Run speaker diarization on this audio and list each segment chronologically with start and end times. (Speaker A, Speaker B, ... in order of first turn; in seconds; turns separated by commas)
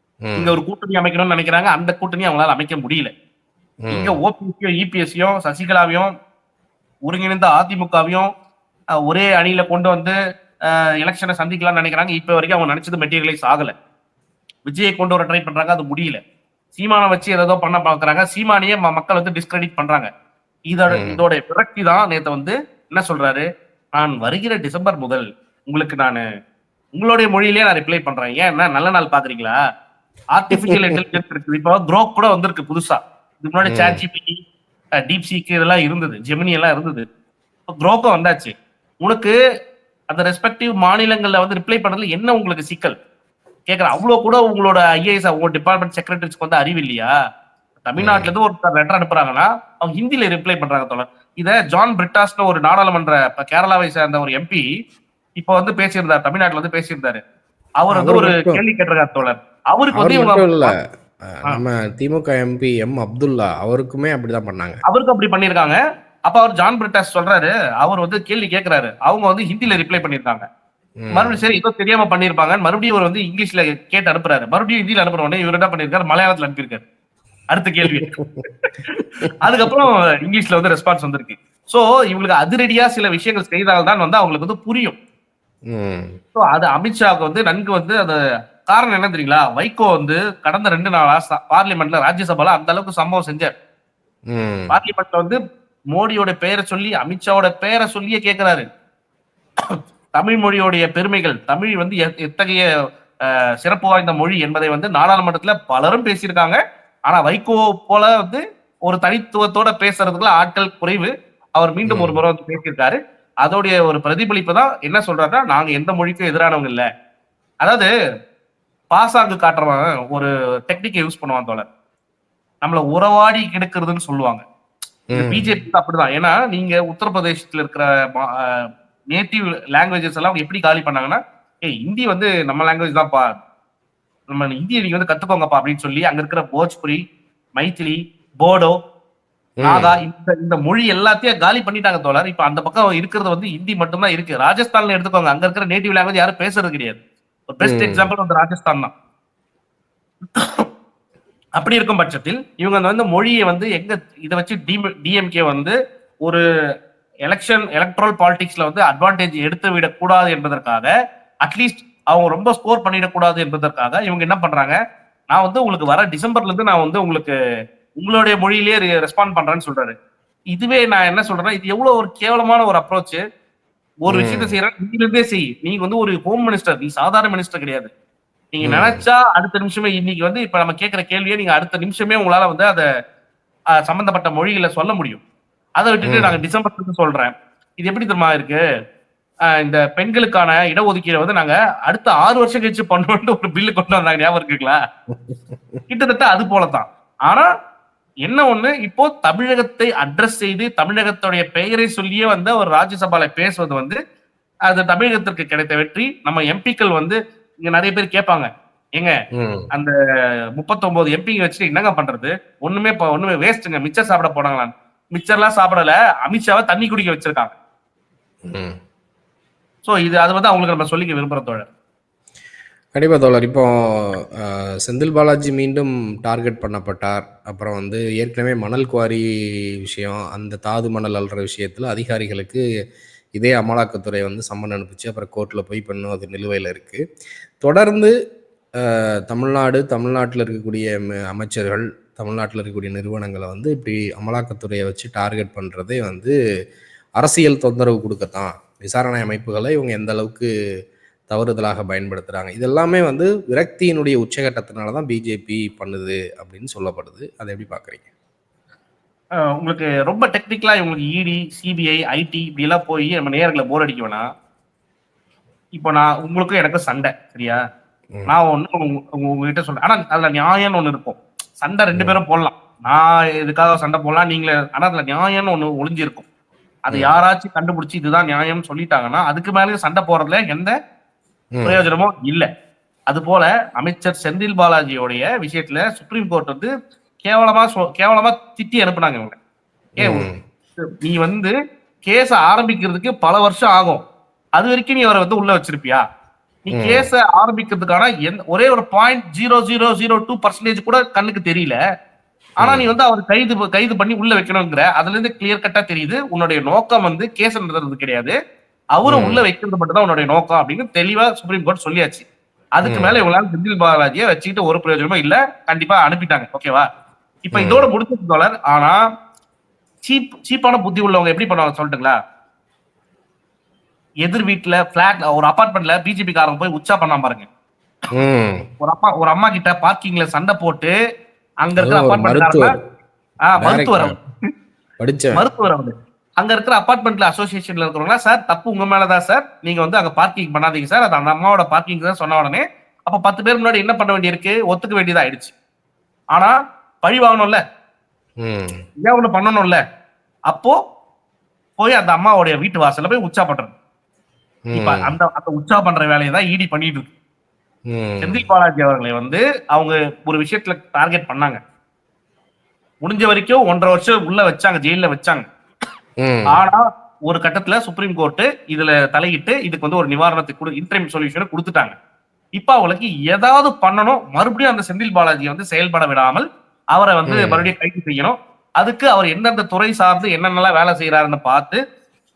Speaker A: 0.2-0.6, Speaker B: 0.4-3.1, Speaker A: 3.9-4.2, Speaker B: 3.9-6.1, Speaker B: 7.1-8.3, Speaker B: 9.1-10.2, Speaker B: 10.7-13.7, Speaker B: 14.7-16.2, Speaker B: 16.8-20.1, Speaker B: 20.7-23.4, Speaker A: 20.9-21.2, Speaker B: 24.0-26.2, Speaker B: 26.9-29.6, Speaker B: 30.3-34.4, Speaker A: 30.6-31.0, Speaker A: 33.7-34.0, Speaker B: 35.0-37.0, Speaker B: 37.7-39.4, Speaker B: 40.1-42.9, Speaker B: 43.7-47.1, Speaker B: 47.9-54.6, Speaker A: 48.0-48.3, Speaker B: 55.4-57.2, Speaker B: 57.8-60.7, Speaker A: 57.9-58.6, Speaker A: 59.9-60.7, Speaker A: 61.3-64.8, Speaker B: 64.9-70.4, Speaker A: 71.0-71.4, Speaker B: 71.1-76.8, Speaker B: 77.5-78.1, Speaker A: 77.9-78.5, Speaker B: 78.7-85.0, Speaker A: 85.7-86.2, Speaker B: 86.3-93.5, Speaker A: 94.3-94.7, Speaker B: 94.7-95.4, Speaker B: 96.0-98.7, Speaker B: 100.2-102.7, Speaker B: 103.6-116.8, Speaker A: 111.9-112.2, Speaker B: 118.9-121.7, Speaker B: 122.6-124.4, Speaker A: 125.1-125.5, Speaker B: 125.1-133.3, Speaker B: 134.3-137.0, Speaker B: 137.6-138.8, Speaker A: 139.6-139.9, Speaker B: 139.6-148.9, Speaker A: 147.6-148.1, Speaker B: 150.3-150.7, Speaker B: 151.6-156.4, Speaker B: 157.3-160.9, Speaker B: 161.4-164.8, Speaker B: 165.3-167.3, Speaker B: 168.0-169.9, Speaker B: 170.5-173.2, Speaker B: 174.0-177.9, Speaker A: 174.1-174.6, Speaker B: 178.5-182.8, Speaker A: 178.6-179.0, Speaker B: 183.8-185.2, Speaker B: 185.8-188.6, Speaker A: 186.1-186.4, Speaker B: 189.6-194.8, Speaker A: 195.1-195.4, Speaker B: 195.9-197.5, Speaker B: 198.3-204.0, Speaker B: 204.7-209.1, Speaker A: 209.3-209.7, Speaker B: 210.6-217.5, Speaker A: 218.5-218.8, Speaker B: 219.8-221.7, Speaker A: 222.9-229.2, Speaker A: 229.8-232.6, Speaker A: 233.3-237.0, Speaker A: 237.6-238.1, Speaker A: 238.8-246.3, Speaker A: 247.2-250.5, Speaker A: 251.3-258.1, Speaker B: 259.6-264.2, Speaker B: 265.8-267.6, Speaker B: 268.3-276.3, Speaker A: 271.9-272.2, Speaker B: 276.9-280.7, Speaker A: 281.6-281.8, Speaker B: 281.6-282.4, Speaker B: 283.1-286.7, Speaker B: 287.2-289.4, Speaker B: 290.0-290.3, Speaker A: 290.0-290.4, Speaker B: 291.0-291.5, Speaker B: 292.1-294.0, Speaker B: 294.6-296.0, Speaker B: 296.7-301.8, Speaker A: 296.7-297.1, Speaker B: 302.6-308.4, Speaker A: 302.6-302.9, Speaker B: 309.0-312.3, Speaker A: 309.1-309.4, Speaker B: 312.8-316.9, Speaker A: 312.9-313.2, Speaker B: 317.5-319.0, Speaker A: 317.5-317.9, Speaker B: 320.0-322.2, Speaker B: 324.3-327.5, Speaker A: 328.1-328.7, Speaker B: 328.8-330.9, Speaker B: 331.6-332.7, Speaker A: 331.8-332.7, Speaker B: 333.5-334.2, Speaker A: 333.6-334.2, Speaker A: 335.0-335.5, Speaker B: 335.4-345.5, Speaker B: 346.4-347.6, Speaker A: 348.4-348.8, Speaker B: 349.0-349.8, Speaker B: 350.5-350.8, Speaker B: 351.8-353.7, Speaker A: 354.7-355.1, Speaker B: 354.7-357.1, Speaker A: 357.9-358.5, Speaker B: 358.2-361.6, Speaker B: 363.1-365.4, Speaker A: 366.2-366.6, Speaker B: 366.5-371.9, Speaker B: 372.6-381.8, Speaker A: 377.3-377.7